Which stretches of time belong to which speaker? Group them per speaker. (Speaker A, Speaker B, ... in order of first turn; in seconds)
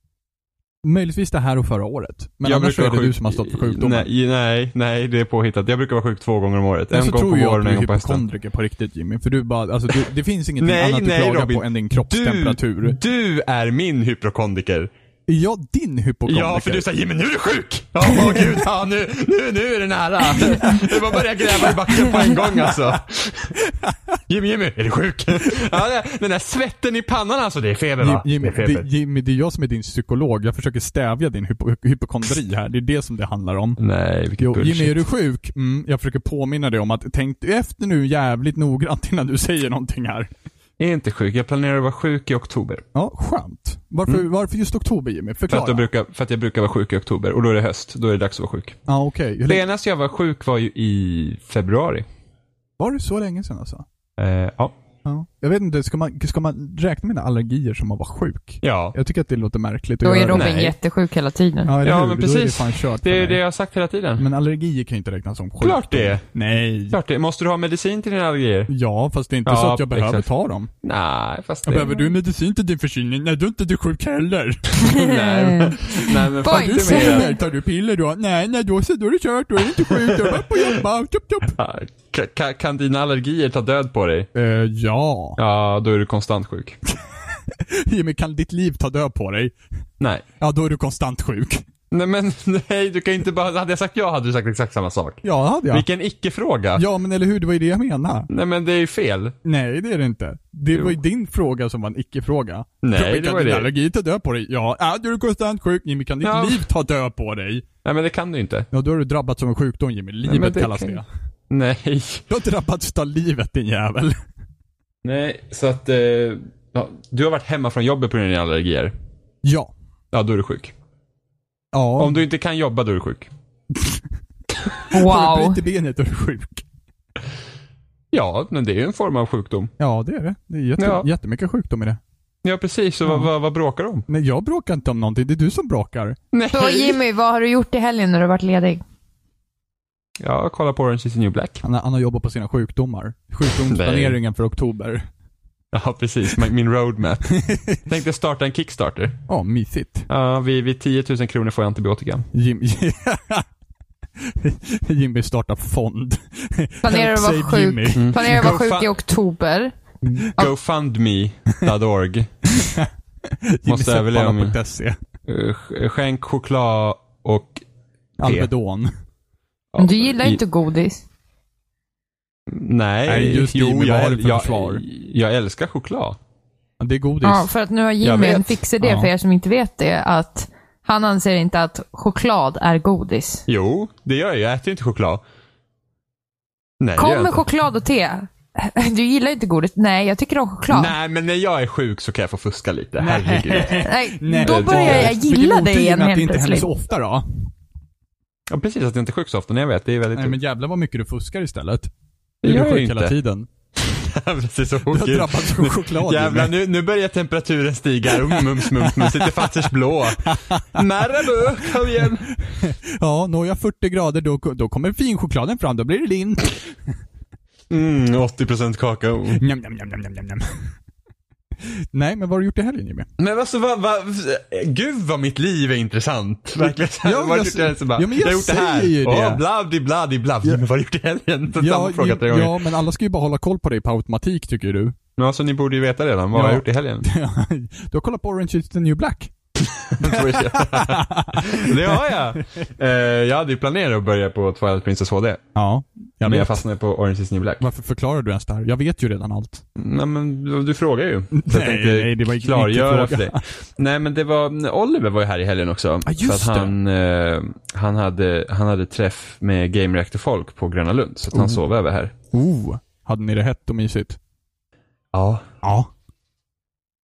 Speaker A: 0.8-4.1, 6.9-13.0, 15.3-16.9, 18.1-18.4, 20.6-23.0, 23.6-24.2, 28.0-33.8, 34.4-40.3, 42.9-45.9, 48.9-49.6, 52.8-53.8, 55.0-60.5, 61.6-63.4, 64.2-67.0, 68.7-70.7, 71.7-81.5, 84.3-85.4, 87.3-89.5, 90.4-91.6, 95.2-95.8, 96.8-98.3, 99.4-107.7, 108.7-111.0, 112.3-114.2, 119.4-119.7, 121.7-122.2, 123.8-124.0, 124.7-126.6, 129.8-132.0, 134.1-136.2, 141.6-145.0, 147.3-147.8, 149.3-150.1, 152.3-153.4, 154.2-158.5, 162.5-165.0, 168.2-168.9, 173.1-174.8, 176.8-177.5, 178.8-179.1, 193.0-197.5, 200.1-201.9, 202.4-203.5, 204.9-206.5, 208.3-209.7, 210.2-211.7, 212.4-216.7, 219.3-220.7, 221.9-223.1, 226.6-229.4, 231.6-234.9, 236.3-242.6, 245.5-246.6, 247.6-249.6, 251.3-253.4, 256.0-256.7, 261.3-261.6, 262.3-264.2, 265.6-265.9
Speaker B: 2.4-8.2, 10.6-14.9, 16.3-23.5, 24.3-28.9, 33.8-35.0, 40.8-42.8, 45.5-48.8, 49.5-52.0, 54.2-54.7, 58.6-58.9, 60.3-60.7, 61.8-64.2, 65.6-66.2, 66.9-68.7, 69.5-70.3, 70.8-72.1, 75.0-77.3, 79.7-80.8, 81.5-84.3, 85.4-86.8, 91.9-96.8, 98.3-99.3, 100.7-101.0, 102.8-103.7, 106.2-106.7, 107.8-108.7, 110.2-112.2, 115.0-118.9, 120.1-120.7, 122.0-123.3, 128.1-129.7, 130.8-131.1, 132.4-134.1, 136.3-137.0, 140.2-141.6, 143.5-144.2, 145.7-149.2, 150.1-152.2, 157.9-158.9, 160.0-162.3, 163.7-164.6, 165.2-167.6, 168.2-168.5, 169.7-170.4, 172.5-176.2, 178.0-178.6, 183.5-185.2, 186.8-187.4, 190.7-193.9, 194.4-195.1, 198.5-200.4, 202.4-203.1, 203.8-212.3, 217.7-219.4, 223.2-232.6, 235.2-237.1, 239.9-245.4, 246.2-247.6, 249.8-262.1, 265.1-265.4
Speaker C: 60.0-61.7, 74.8-77.4, 124.9-125.6, 136.5-138.8, 156.8-159.7, 169.8-171.0, 177.2-183.4, 187.0-190.9, 193.7-196.7